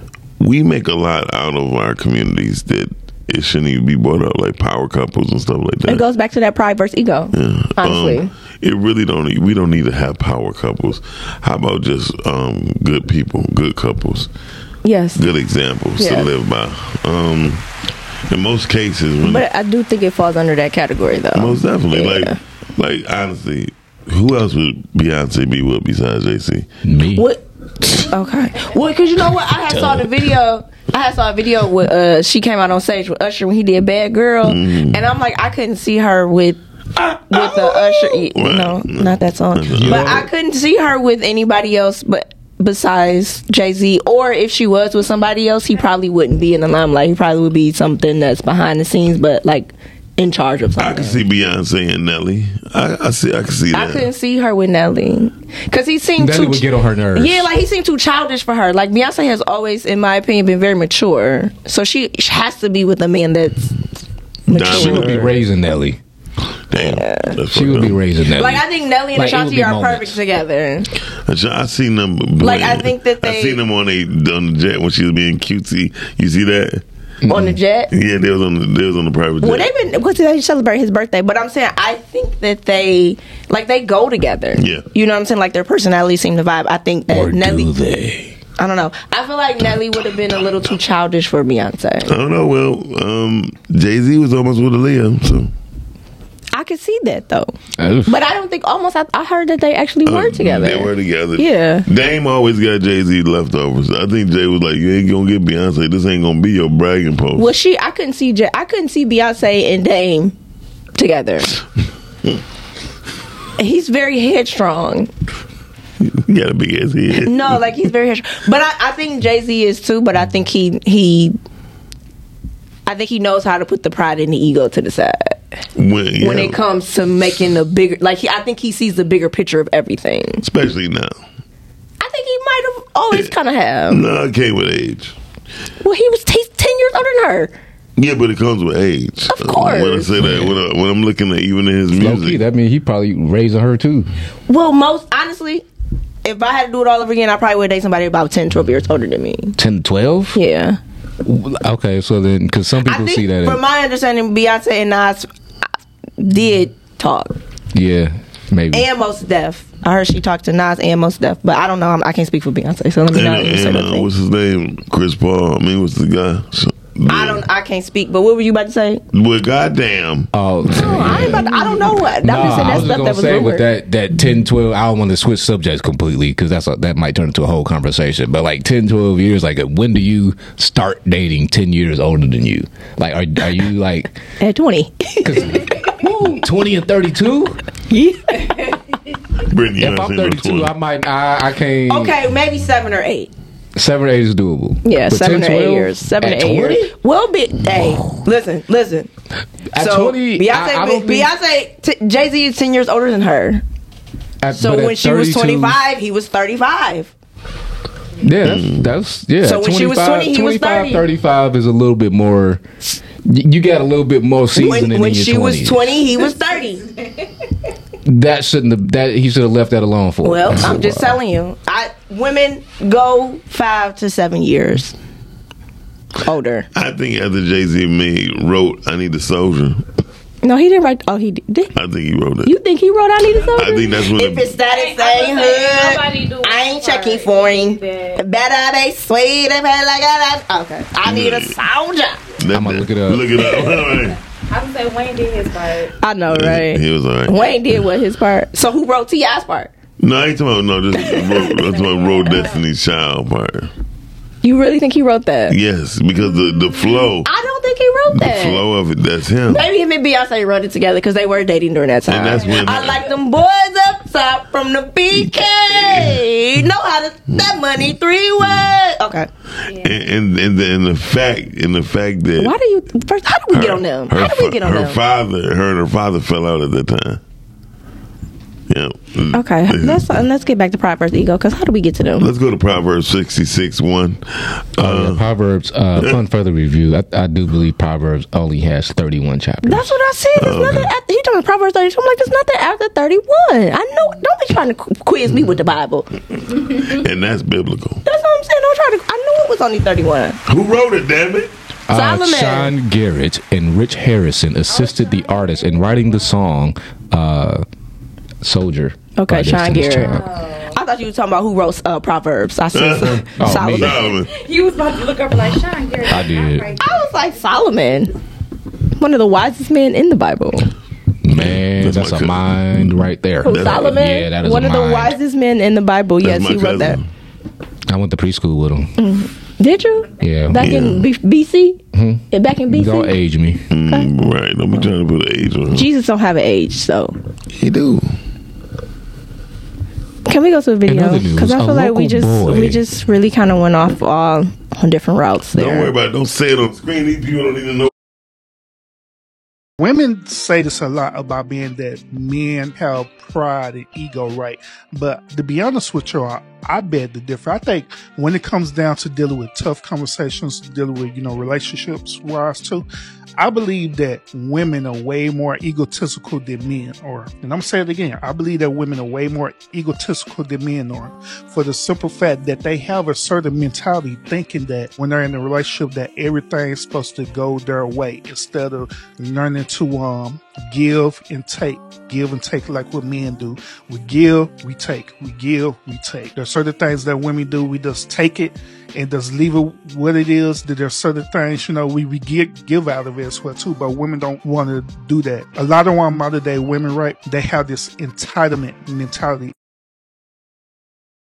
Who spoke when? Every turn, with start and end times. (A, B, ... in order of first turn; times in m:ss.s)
0:00.4-0:06.0 A
0:05.8-0:08.3 B
0:07.3-0:14.3 A
0:14.8-0:15.2 B
0:15.1-0:17.6 A
0:16.0-0:16.3 B
0:18.3-0:19.4 A
0:19.2-0:22.4 B
0:21.3-0:26.7 A
0:26.8-0:27.3 C
0:27.2-0:27.4 B
0:28.0-0:51.2 B
0:29.7-0:30.3 C
0:34.4-0:35.0 A
0:37.3-0:40.2 A
0:39.7-0:40.3 C
0:50.8-0:54.1 A
0:53.7-1:03.7 B
0:56.2-0:57.5 C
1:04.5-1:05.2 B
1:04.5-1:05.4 A
1:04.5-1:06.0 C
1:06.7-1:08.0 A
1:06.8-1:07.4 B
1:07.5-1:10.2 C
1:08.2-1:10.9 B
1:11.2-1:16.8 A
1:12.4-1:13.6 B
1:17.2-1:17.6 C
1:17.3-1:17.9 B
1:17.9-1:19.7 A
1:19.4-1:27.7 B
1:24.5-1:24.8 A
1:27.1-1:28.4 C
1:28.6-1:32.1 B
1:32.0-1:35.5 A
1:36.5-1:37.5 B
1:37.8-1:38.2 C
1:38.0-1:41.8 B
1:40.0-1:47.5 A
1:47.3-1:50.3 B
1:51.0-1:51.5 B
1:53.6-1:55.1 B
1:56.0-1:57.6 A
1:57.2-2:01.3 B
2:02.8-2:05.4 B
2:05.8-2:06.6 A
2:06.2-2:10.4 B
2:10.4-2:11.2 A
2:12.0-2:14.0 B
2:13.9-2:15.1 A
2:15.8-2:17.5 B
2:18.0-2:22.4 A
2:19.3-2:20.1 B
2:20.2-2:20.5 C
2:21.9-2:24.1 C
2:24.5-2:25.6 B
2:26.2-2:29.6 B
2:29.6-2:30.4 C
2:30.3-2:30.8 B
2:31.2-2:33.6 C
2:32.8-2:35.3 B
2:36.2-2:37.4 B
2:37.7-2:38.9 C
2:38.7-2:44.1 B
2:43.1-2:47.4 A
2:47.1-2:49.0 B
2:49.1-2:50.3 A
2:50.3-2:51.6 C
2:50.7-2:53.7 B
2:52.2-3:04.2 C
3:04.4-3:05.7 B
3:05.2-3:07.6 C
3:07.9-3:08.7 B
3:09.4-3:10.7 A
3:09.8-3:12.2 C
3:11.9-3:13.3 B
3:13.8-3:16.9 C
3:14.8-3:19.1 B
3:19.7-3:21.3 C
3:19.8-3:23.6 B
3:24.4-3:25.8 C
3:24.5-3:27.1 B
3:28.2-3:32.6 C
3:28.4-3:28.8 A
3:29.4-3:31.0 B
3:33.2-3:36.0 C
3:34.5-3:36.9 B
3:38.0-3:41.2 C
3:40.2-3:45.0 B
3:46.2-3:46.7 B
3:46.7-3:49.8 A
3:50.4-3:51.7 B
3:51.7-3:52.5 A
3:52.4-4:02.2 B
3:53.5-3:54.5 A
3:54.7-3:58.2 D
4:01.0-4:01.6 A
4:02.4-4:04.2 A
4:02.5-4:03.6 C
4:04.5-4:06.0 D
4:06.0-4:09.7 B
4:06.3-4:07.8 A
4:10.0-4:13.7 A
4:11.0-4:11.3 B
4:11.4-4:12.6 D
4:14.4-4:15.6 B
4:15.5-4:17.3 A
4:16.5-4:16.8 D
4:17.2-4:18.6 B
4:18.1-4:19.6 A
4:19.5-4:29.3 B
4:22.0-4:23.0 A
4:22.4-4:23.1 D
4:25.7-4:26.2 A
4:29.7-4:30.0 D
4:29.7-4:32.5 A
4:32.4-4:35.0 B
4:33.5-4:37.2 A
4:38.7-4:40.1 A
4:39.3-4:42.3 B
4:42.2-4:45.2 A
4:44.8-4:50.0 C
4:49.6-4:56.1 B
4:50.4-4:50.9 A
4:56.7-4:58.0 A
4:58.0-5:00.4 B
5:00.4-5:01.5 A
5:01.9-5:07.6 C
5:01.9-5:02.7 B
5:04.7-5:06.5 D
5:08.4-5:10.3 C
5:09.2-5:14.1 B
5:10.0-5:10.8 D
5:12.7-5:14.3 A
5:13.4-5:14.0 C
5:14.2-5:17.5 D
5:16.0-5:16.7 C
5:16.8-5:18.1 B
5:19.0-5:20.7 B
5:21.2-5:25.2 C
5:21.3-5:24.0 A
5:23.4-5:27.0 B
5:26.2-5:27.1 A
5:27.9-5:29.0 C
5:29.0-5:31.8 B
5:30.2-5:30.6 C
5:30.6-5:31.0 A
5:31.9-5:33.6 C
5:32.3-5:33.2 B
5:33.7-5:35.9 A
5:35.7-5:37.2 B
5:37.5-5:38.1 A
5:40.2-5:45.9 B
5:40.8-5:42.8 C
5:45.5-5:47.9 A
5:49.8-6:02.8 E
6:03.4-6:39.5 E